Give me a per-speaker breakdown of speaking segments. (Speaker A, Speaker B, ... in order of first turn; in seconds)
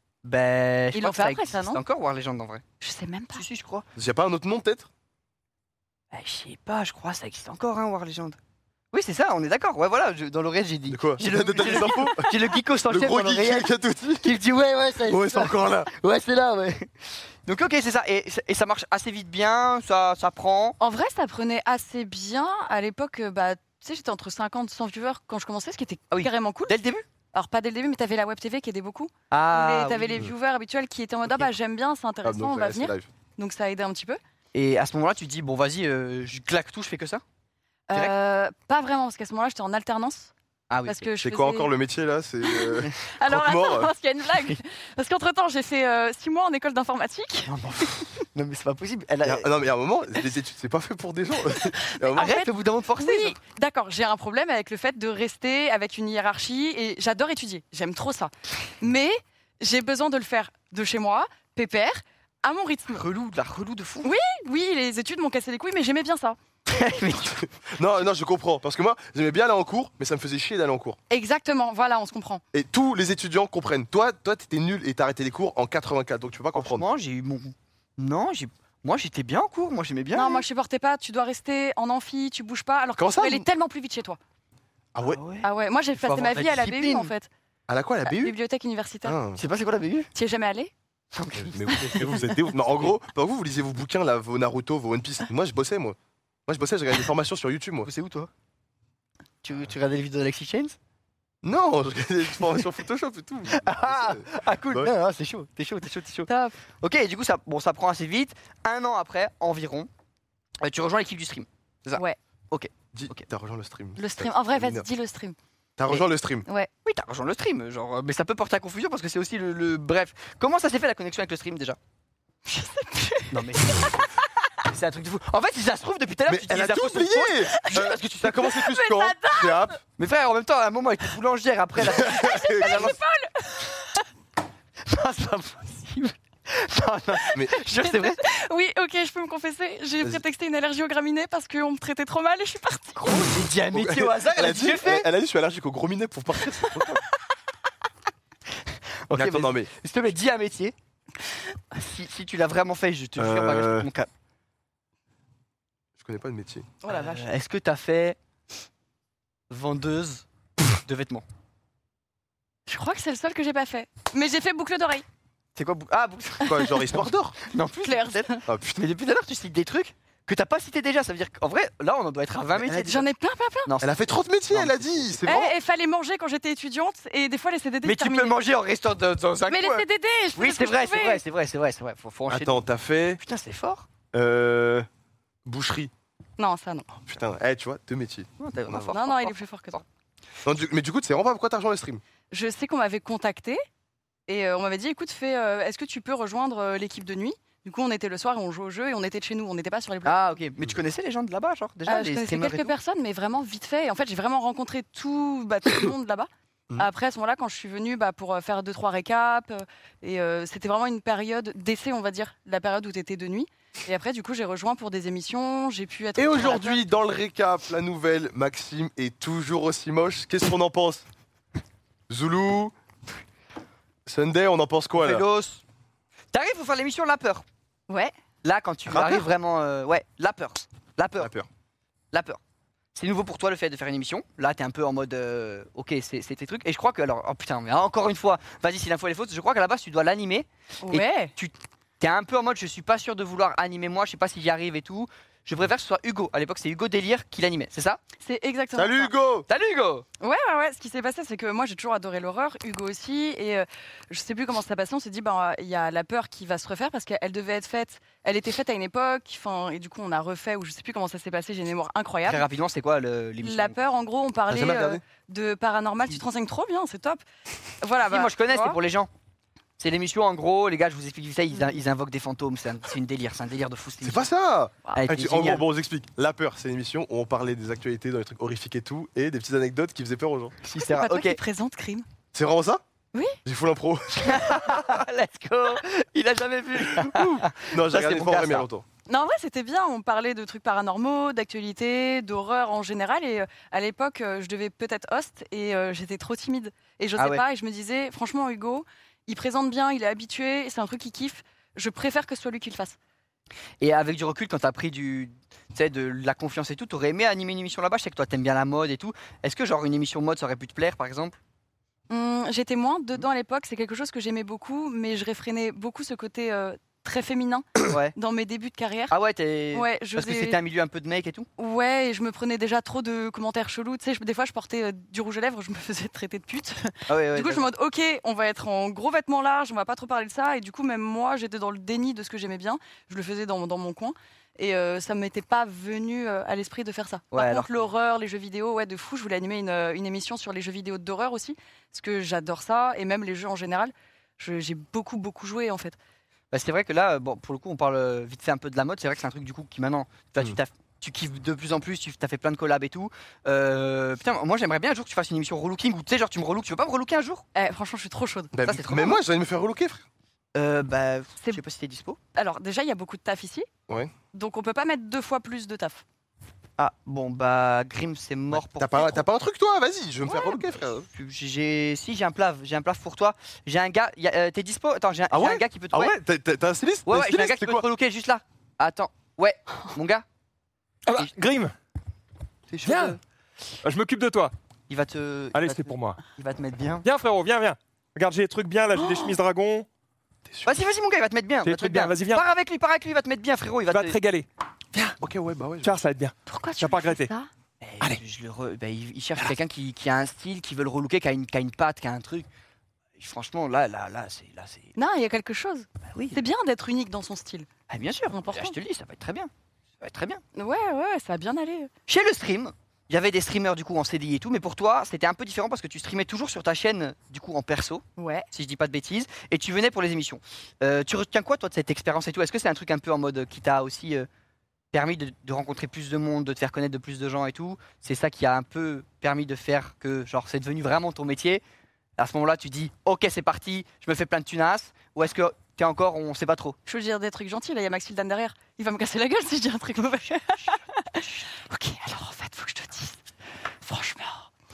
Speaker A: 0.2-2.6, 3.3-3.9, 6.1-8.4, 8.9-13.7, 14.2-16.9, 17.4-20.8, 26.1-27.0, 29.3-30.3, 34.5-37.2, 40.7-41.1, 47.5-49.5, 52.1-53.4, 62.9-64.1, 66.7-67.5, 76.5-80.4, 85.1-87.1, 89.4-90.1, 91.1-92.3, 97.8-98.3, 99.4-100.8, 103.5-106.3, 106.8-109.9, 110.6-113.2, 116.8-121.8, 123.3-124.1, 124.6-128.3, 130.0-132.9, 134.8-138.2, 143.0-145.1, 148.7-150.7, 151.7-154.1, 156.9-158.2, 159.5-161.2, 165.6-166.8, 167.4-173.0, 173.7-174.0, 174.5-175.3, 177.8-182.6, 183.2-183.9, 188.4-189.8, 200.0-202.7, 224.9-225.6, 226.3-227.4, 228.4-231.3, 232.1-232.4, 232.9-248.0, 249.5-250.1, 262.3-263.8, 268.1-269.1, 269.8-274.3, 274.9-275.6, 280.6-281.4, 284.1-288.7, 297.2-297.4, 303.8-311.4, 317.9-318.1, 319.1-321.5, 327.1-327.7, 337.3-337.7, 346.5-357.4, 358.6-359.2, 360.5-362.2, 366.8-369.3, 371.1-376.2, 377.1-380.2, 382.7-383.2, 384.9-387.1, 390.6-394.2, 397.8-402.5, 403.2-404.9, 406.1-406.4, 407.9-410.4, 412.1-424.3, 424.9-431.6, 432.2-436.8
Speaker B: 0.9-1.8, 2.8-3.4, 11.6-12.1, 20.8-26.7, 27.3-34.2, 37.9-40.3, 40.9-41.7, 42.4-48.0, 51.7-63.0, 64.0-66.4, 71.1-72.4, 80.1-84.2, 85.4-87.3, 88.0-89.2, 90.1-90.7, 106.3-106.6, 114.0-115.3, 122.5-124.1, 127.5-129.7, 131.9-134.0, 137.7-143.3, 156.8-157.2, 162.7-165.0, 167.8-168.4, 172.6-173.7, 175.2-178.3, 179.5-181.2, 186.4-186.9, 188.9-189.8, 192.3-193.6, 194.3-200.3, 201.9-216.8, 227.9-228.1, 240.8-241.3, 248.2-249.1, 250.2-262.5, 263.4-267.2, 267.8-268.8, 280.9-282.0, 289.1-303.0, 312.1-319.1, 319.7-320.6, 321.6-346.0, 357.5-358.5, 362.4-363.7, 364.3-366.0, 370.3-370.6, 388.9-389.4, 396.4-397.5, 404.9-407.7, 408.3-408.7, 410.5-411.9, 418.2-418.5, 436.9-443.2, 443.8-444.5
Speaker C: 4.0-4.9, 10.9-14.3, 15.0-15.9, 32.2-33.1, 41.2-43.9, 49.2-52.4, 67.6-71.0, 72.5-76.8, 83.0-83.5, 84.9-85.2, 87.7-88.3, 89.0-89.4, 91.3-96.0, 96.5-97.9, 101.4-104.9, 112.9-114.8, 115.8-116.5, 126.3-129.8, 131.8-133.0, 143.7-147.0, 149.1-149.7, 153.2-153.9, 156.0-156.7, 166.4-167.3, 168.5-168.8, 173.8-175.5, 182.3-183.2, 184.1-184.8, 185.4-185.9, 187.1-188.9, 190.4-192.0, 216.2-221.0, 222.1-222.7, 224.1-225.2, 228.9-229.2, 231.2-231.5, 248.7-249.5, 264.5-265.0, 274.0-280.5, 282.3-282.8, 283.4-285.0, 286.9-288.8, 358.5-360.0, 368.5-371.1, 375.3-377.8, 390.5-390.8, 395.2-396.0
Speaker D: 381.1-381.7, 382.8-383.2, 383.8-384.5, 385.5-386.2, 387.0-389.9, 391.6-392.4, 393.9-395.2, 395.8-397.3